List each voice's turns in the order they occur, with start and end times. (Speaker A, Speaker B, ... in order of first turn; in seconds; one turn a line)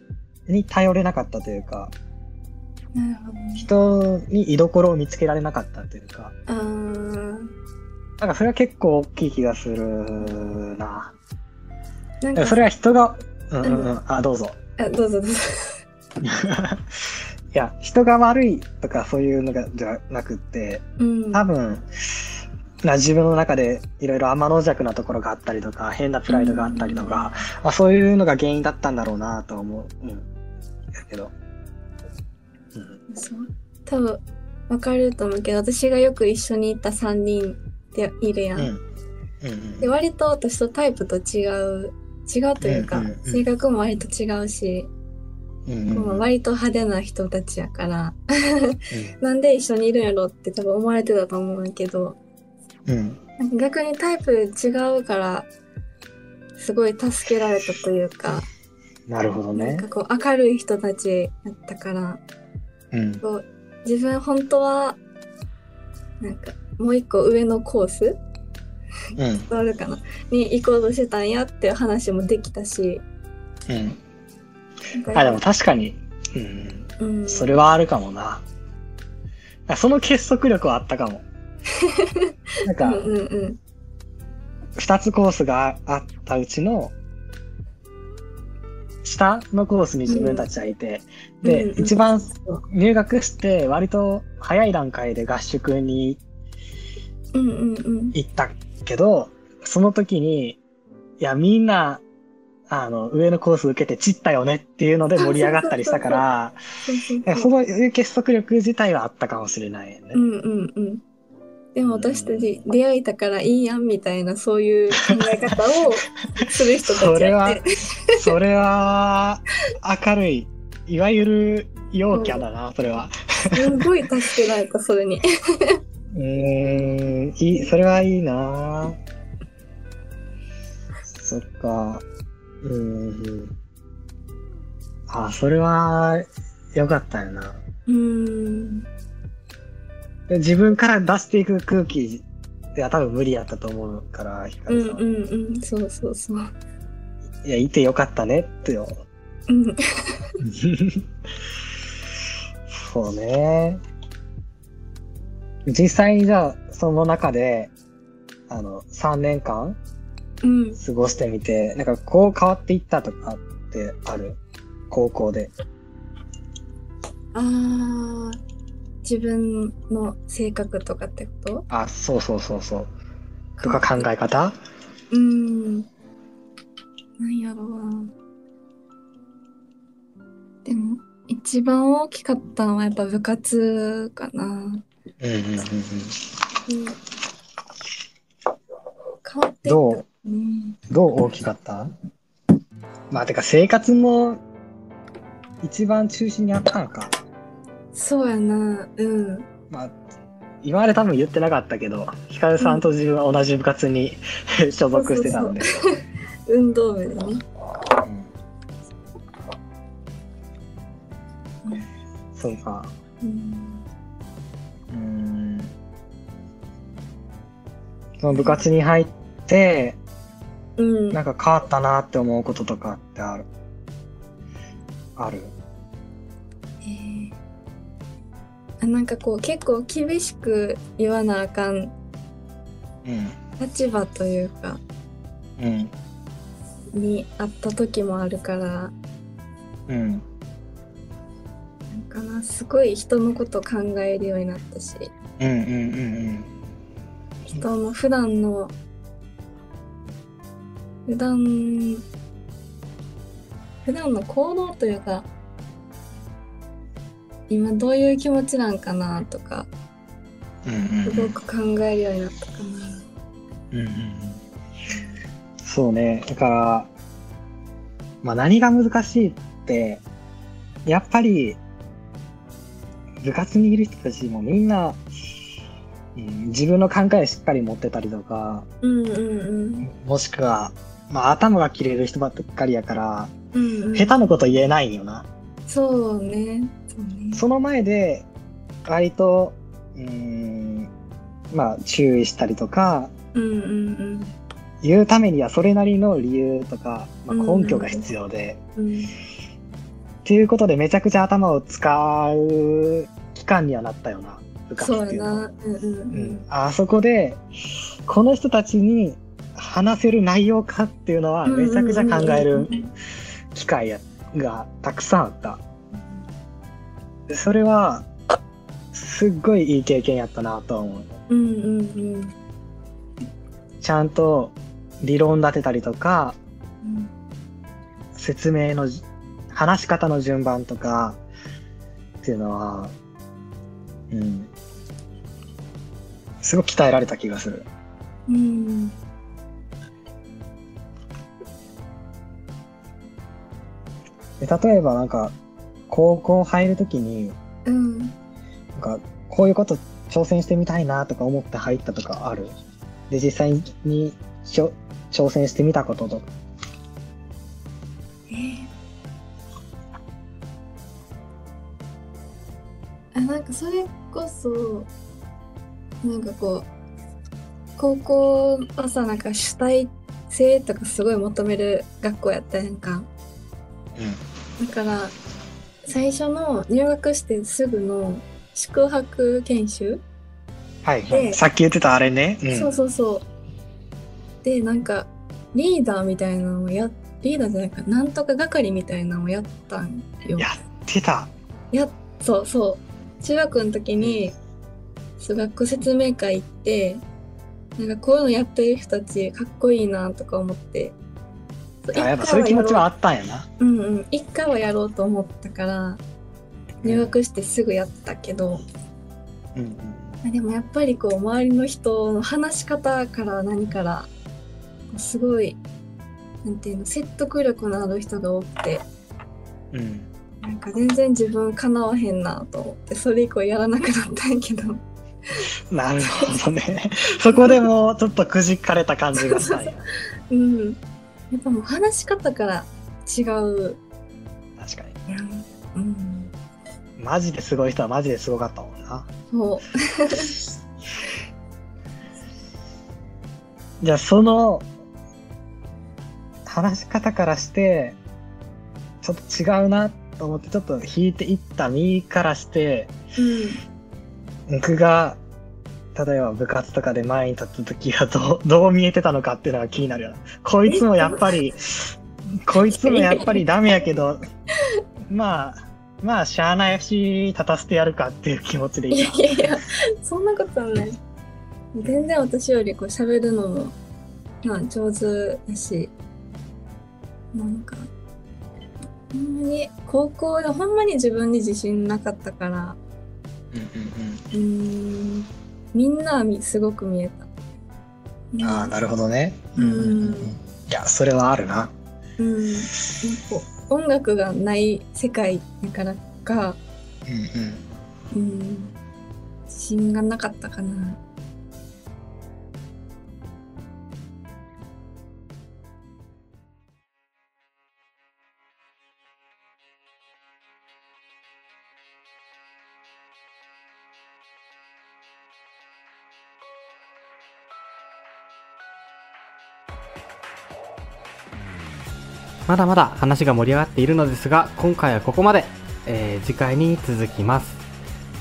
Speaker A: 0.5-1.9
Speaker B: 2.9-3.7
Speaker A: 3.6-6.3
Speaker B: 6.5-7.5
Speaker A: 8.2-11.2
Speaker B: 12.2-12.6
Speaker A: 12.3-14.6
Speaker B: 13.6-13.9
Speaker B: 14.8-15.8
Speaker A: 16.2-30.3
Speaker B: 21.0-21.4
Speaker B: 26.3-27.3
Speaker A: 30.9-31.3
Speaker A: 32.7-33.0
Speaker B: 33.1-38.7
Speaker A: 38.6-38.8
Speaker A: 39.4-39.9
Speaker B: 39.8-44.9
Speaker A: 42.6-43.4
Speaker A: 45.7-46.3
Speaker B: 45.9-52.2
Speaker A: 48.9-49.2
Speaker A: 52.9-53.2
Speaker B: 53.4-55.5
Speaker B: 56.6-58.5
Speaker A: 59.1-59.9
Speaker B: 59.5-62.2
Speaker A: 62.9-63.2
Speaker B: 63.2-65.0
Speaker B: 66.2-68.2
Speaker A: 69.2-69.5
Speaker B: 69.5-73.0
Speaker A: 73.7-74.0
Speaker B: 74.9-75.4
Speaker A: 75.1-78.4
Speaker B: 77.0-77.6
Speaker A: 79.7-81.2
Speaker B: 81.8-83.6
Speaker A: 82.6-83.1
Speaker A: 84.8-86.9
Speaker A: 89.0-96.2
Speaker B: 90.1-90.5
Speaker B: 91.4-92.6
Speaker B: 97.3-98.2
Speaker A: 98.1-100.6
Speaker A: 101.2-102.0
Speaker A: 102.7-106.6
Speaker B: 105.2-106.2
Speaker B: 106.9-107.5
Speaker A: 107.3-110.2
Speaker B: 110.1-111.0
Speaker B: 111.7-118.2
Speaker A: 111.8-112.6
Speaker A: 116.8-117.6
Speaker A: 118.1-123.8
Speaker B: 122.1-122.4
Speaker B: 123.5-125.8
Speaker A: 126.1-129.0
Speaker A: 131.1-132.0
Speaker A: 132.6-133.5
Speaker A: 135.1-137.6
Speaker B: 137.9-138.9
Speaker A: 140.3-145.0
Speaker B: 144.7-146.5
Speaker A: 147.4-149.0
Speaker B: 149.5-150.4
Speaker A: 150.4-151.1
Speaker A: 152.7-153.8
Speaker A: 155.7-157.7
Speaker A: 158.5-159.8
Speaker B: 160.4-160.8
Speaker A: 160.8-164.4
Speaker A: 164.9-165.5
Speaker B: 167.3-168.4
Speaker B: 169.0-171.7
Speaker A: 171.7-172.9
Speaker B: 173.6-174.1
Speaker A: 173.6-174.6
Speaker B: 175.1-175.9
Speaker B: 177.2-178.1
Speaker B: 180.6-184.8
Speaker A: 185.2-186.2
Speaker B: 186.7-187.0
Speaker B: 189.2-191.1
Speaker A: 189.7-190.0
Speaker A: 190.9-191.9
Speaker A: 193.1-194.4
Speaker A: 195.6-197.1
Speaker B: 197.9-199.5
Speaker A: 200.6-205.7
Speaker B: 202.6-202.9
Speaker B: 204.9-207.4
Speaker A: 208.0-208.3
Speaker A: 212.3-212.9
Speaker B: 213.2-213.8
Speaker A: 214.9-215.7
Speaker A: 218.2-220.0
Speaker B: 218.3-218.6
Speaker B: 220.8-221.2
Speaker A: 221.1-223.5
Speaker A: 225.2-225.5
Speaker B: 226.8-227.4
Speaker B: 228.8-231.9
Speaker A: 233.1-233.4
Speaker B: 233.6-234.8
Speaker A: 235.6-235.9
Speaker B: 236.9-238.9
Speaker A: 239.9-240.2
Speaker B: 241.9-245.1
Speaker A: 245.4-246.5
Speaker B: 247.6-248.7
Speaker B: 251.1-252.1
Speaker B: 253.8-255.3
Speaker B: 257.5-259.7
Speaker A: 260.6-261.4
Speaker B: 261.1-263.1
Speaker A: 263.7-264.4
Speaker B: 264.9-265.2
Speaker A: 265.6-266.9
Speaker A: 268.2-270.0
Speaker A: 270.9-271.6
Speaker A: 273.2-275.0
Speaker A: 276.1-278.7
Speaker B: 278.8-279.9
Speaker A: 279.9-283.3
Speaker B: 283.5-284.2
Speaker A: 283.9-285.3
Speaker B: 285.7-287.4
Speaker A: 287.3-288.3
Speaker A: 288.9-290.9
Speaker A: 291.5-293.1
Speaker B: 293.3-294.3
Speaker A: 294.8-298.6
Speaker B: 297.3-298.1
Speaker B: 298.8-299.1
Speaker A: 300.2-305.4
Speaker B: 304.8-306.4
Speaker A: 306.1-307.4
Speaker A: 308.1-312.8
Speaker B: 311.4-312.9
Speaker A: 313.5-315.6
Speaker A: 317.3-318.1
Speaker A: 318.9-321.1
Speaker B: 321.3-322.3
Speaker A: 323.8-326.4
Speaker B: 326.8-327.1
Speaker A: 328.1-331.2
Speaker A: 332.2-332.9
Speaker A: 334.1-334.5
Speaker A: 336.4-337.6
Speaker B: 338.3-338.9
Speaker A: 344.4-345.4
Speaker A: 345.9-347.4
Speaker B: 347.6-348.1
Speaker A: 348.8-352.5
Speaker A: 353.1-356.3
Speaker B: 358.3-358.7
Speaker B: 363.1-364.9
Speaker B: 366.0-366.7
Speaker B: 367.8-373.1
Speaker B: 374.6-375.1
Speaker B: 375.9-380.0
Speaker A: 380.8-382.7
Speaker B: 381.1-381.4
Speaker B: 382.5-383.3
Speaker B: 384.4-390.5
Speaker A: 390.4-391.3
Speaker B: 391.7-394.4
Speaker A: 394.0-394.3
Speaker B: 395.2-397.0
Speaker B: 397.8-400.9
Speaker B: 401.9-402.9
Speaker A: 401.9-403.5
Speaker B: 403.6-406.0
Speaker A: 406.8-407.1
Speaker B: 406.8-408.6
Speaker A: 409.6-410.1
Speaker B: 410.2-414.1
Speaker B: 414.9-415.6
Speaker B: 416.4-418.8
Speaker A: 419.7-420.1
Speaker B: 420.4-425.4
Speaker A: 425.7-429.9
Speaker B: 427.3-427.6
Speaker B: 429.2-429.7
Speaker B: 430.3-430.8
Speaker B: 431.3-433.8
Speaker A: 434.6-434.9
Speaker B: 435.1-436.3
Speaker A: 437.0-439.1
Speaker B: 439.3-440.4
Speaker A: 443.8-444.7
Speaker A: 446.4-448.0
Speaker A: 449.0-452.9
Speaker B: 453.2-453.6
Speaker A: 454.5-455.2
Speaker A: 455.9-464.2
Speaker B: 460.7-461.2
Speaker B: 462.6-463.4
Speaker A: 465.1-469.5
Speaker B: 468.9-471.0
Speaker B: 471.8-473.8
Speaker A: 471.8-472.1
Speaker B: 474.4-475.9
Speaker B: 477.3-477.9
Speaker B: 479.1-482.8
Speaker A: 483.5-484.2
Speaker B: 484.3-487.3
Speaker B: 488.3-488.7
Speaker A: 488.4-491.7
Speaker B: 489.6-490.4
Speaker B: 492.2-496.6
Speaker A: 497.1-497.6
Speaker B: 498.1-498.7
Speaker B: 499.5-501.0
Speaker C: 522.5-527.6